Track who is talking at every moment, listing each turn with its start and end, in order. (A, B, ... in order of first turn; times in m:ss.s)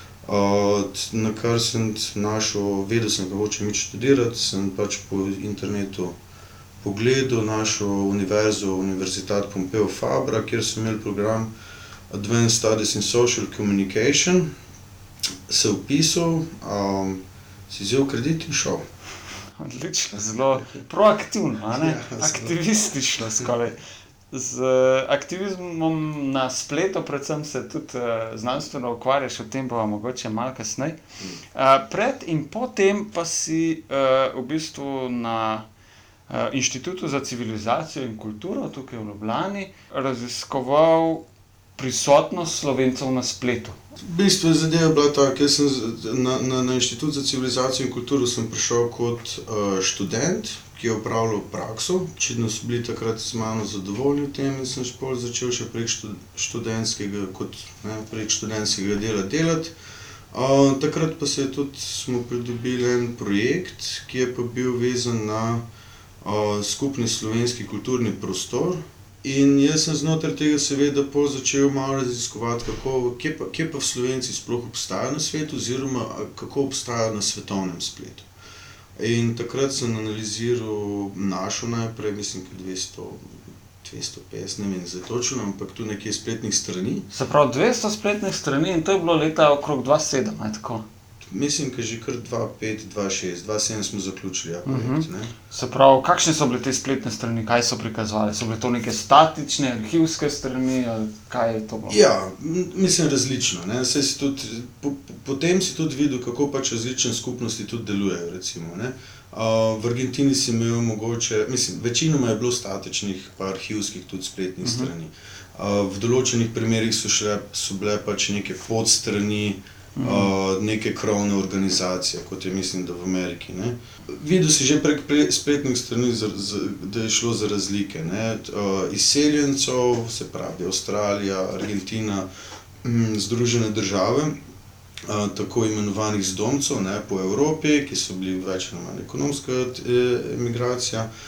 0:00.2-0:06.2 A
0:06.8-0:11.5 A
0:12.1-0:14.5 A
0:15.5-0:18.9 A
0:19.6-0:23.8 B
0:21.7-0:22.6 A
0:24.3-0:31.0 B
0:31.5-0:35.7 B
0:36.3-0:41.2 B
0:41.8-0:43.8 B
0:44.0-0:59.8 A
1:00.3-1:05.6 A
1:06.2-1:18.3 A
1:19.0-1:27.1 A
1:27.1-1:30.8 B
1:31.3-1:35.3 A
1:34.7-1:42.0 B
1:41.9-2:12.3 A
1:54.6-1:54.9 B
2:00.0-2:00.3 B
2:12.8-2:14.4 A
2:15.1-2:21.1 A